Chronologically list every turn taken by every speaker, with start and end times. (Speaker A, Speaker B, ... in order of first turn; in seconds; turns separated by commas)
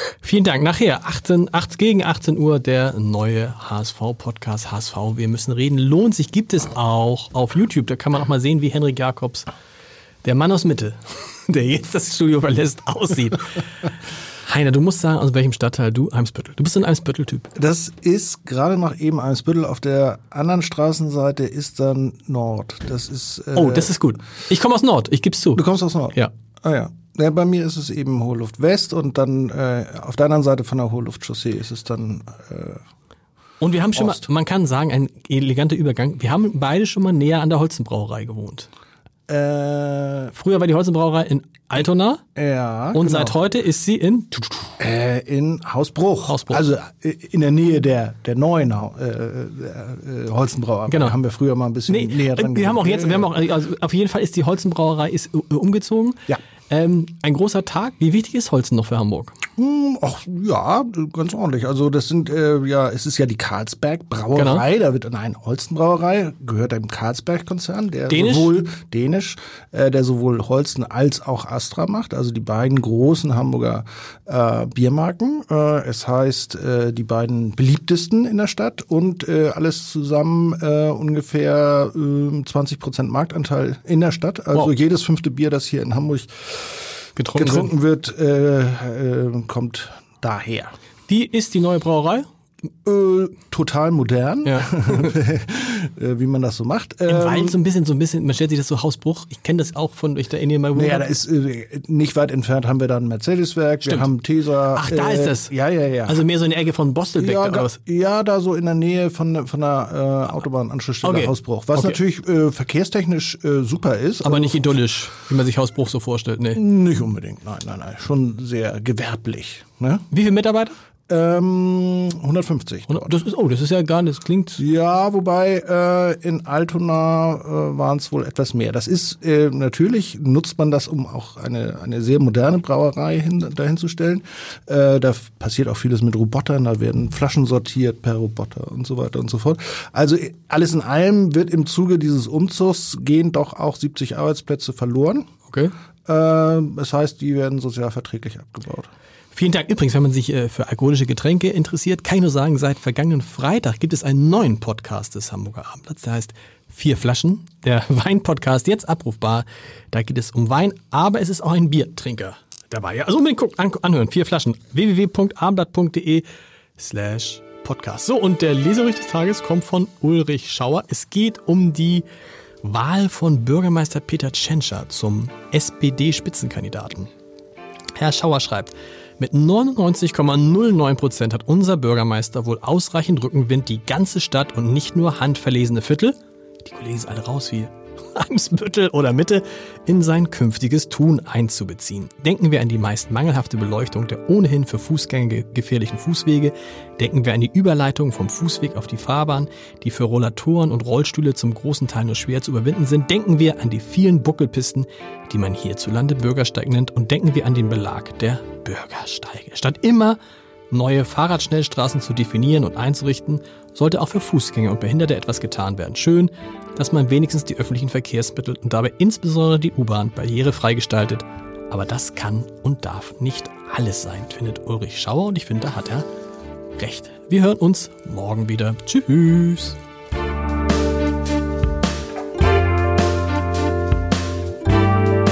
Speaker A: 0.2-9.5, Speaker A: 10.2-13.7, Speaker A: 14.5-17.5, Speaker B: 17.6-23.9, Speaker A: 23.5-25.6, Speaker B: 25.5-32.8, Speaker A: 33.6-38.7, Speaker B: 33.9-34.2, Speaker B: 39.3-40.3, Speaker A: 40.3-42.2, Speaker B: 42.4-43.4, Speaker A: 42.9-44.7, Speaker B: 44.8-53.3, Speaker A: 46.2-46.6, Speaker A: 50.9-51.2, Speaker A: 51.9-59.4, Speaker B: 59.6-90.7, Speaker A: 64.3-64.6, Speaker A: 68.1-68.6, Speaker A: 87.2-87.7, Speaker A: 91.1-92.2, Speaker B: 92.8-97.6, Speaker A: 94.4-95.1, Speaker A: 97.1-101.0, Speaker B: 100.7-106.3, Speaker A: 103.8-104.1, Speaker A: 104.8-105.5, Speaker A: 106.0-107.8, Speaker B: 107.2-114.8, Speaker A: 111.0-112.0, Speaker A: 114.2-116.6, Speaker B: 116.5-120.0, Speaker A: 120.1-120.8, Speaker B: 121.1-123.1, Speaker A: 122.9-124.6, Speaker B: 124.6-145.3, Speaker B: 146.1-148.9, Speaker A: 149.3-166.3, Speaker A: 166.8-172.1, Speaker A: 172.6-177.1, Speaker A: 178.0-210.2, Speaker A: 210.7-226.1, Speaker A: 226.8-229.8